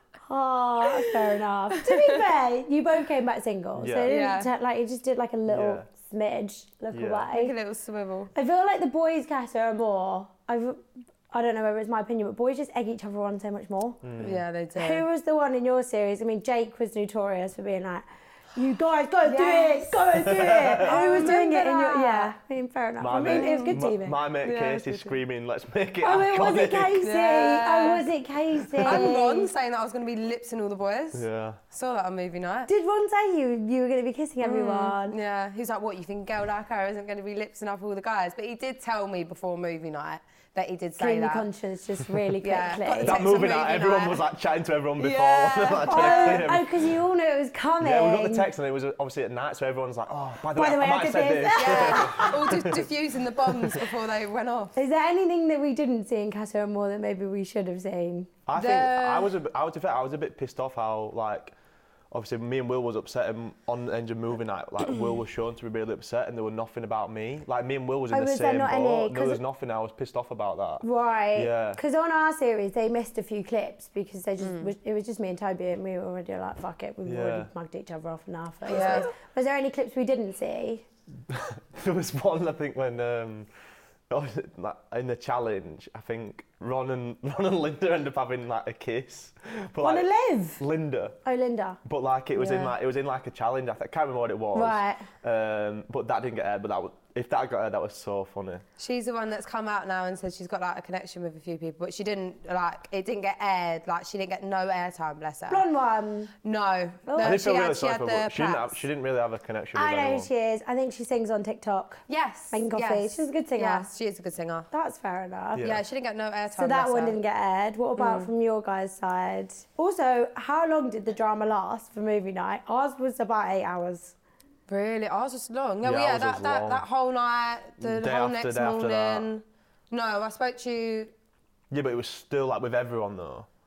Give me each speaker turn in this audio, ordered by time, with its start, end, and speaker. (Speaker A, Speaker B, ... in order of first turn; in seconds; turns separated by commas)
Speaker A: 0.3-7.5, Speaker B: 1.9-2.2, Speaker C: 3.8-4.2, Speaker B: 4.1-4.5, Speaker C: 5.5-5.9, Speaker C: 6.9-7.3, Speaker B: 7.3-8.3, Speaker A: 8.3-14.1, Speaker C: 14.0-14.4, Speaker B: 14.2-15.1, Speaker A: 14.8-24.2, Speaker B: 19.2-22.3, Speaker C: 20.2-21.0, Speaker C: 23.0-27.1, Speaker B: 23.3-23.8, Speaker B: 24.4-25.1, Speaker A: 26.0-29.5, Speaker B: 27.0-28.1, Speaker B: 28.8-32.7, Speaker C: 31.1-31.6, Speaker A: 32.7-35.1, Speaker B: 34.4-41.5, Speaker A: 41.0-43.2, Speaker B: 42.4-44.3, Speaker C: 42.9-46.9, Speaker B: 45.0-46.5, Speaker A: 45.9-48.5, Speaker C: 47.8-52.9, Speaker A: 50.5-52.4, Speaker B: 51.5-54.8, Speaker C: 53.4-53.8, Speaker A: 54.8-58.3, Speaker C: 58.5-61.5, Speaker B: 58.6-59.4, Speaker C: 62.1-71.8, Speaker A: 68.1-69.4, Speaker A: 70.8-80.8, Speaker B: 74.4-74.7, Speaker C: 77.0-77.5, Speaker B: 78.7-79.1, Speaker C: 78.8-79.0, Speaker C: 81.3-83.5, Speaker C: 84.1-91.2, Speaker A: 89.8-90.6, Speaker A: 91.2-91.8, Speaker C: 91.8-98.6, Speaker B: 92.4-92.7, Speaker A: 94.5-95.1, Speaker B: 98.8-105.7, Speaker A: 105.5-106.3, Speaker B: 106.4-108.8, Speaker A: 107.1-107.4, Speaker C: 107.2-110.3, Speaker A: 109.8-112.0, Speaker B: 112.1-114.7, Speaker A: 112.5-113.9, Speaker A: 114.7-115.7, Speaker C: 115.5-115.8, Speaker B: 115.6-117.2, Speaker A: 116.6-124.1, Speaker B: 118.0-118.3, Speaker B: 124.7-131.1, Speaker C: 125.8-126.8, Speaker C: 127.8-129.3, Speaker C: 131.7-133.5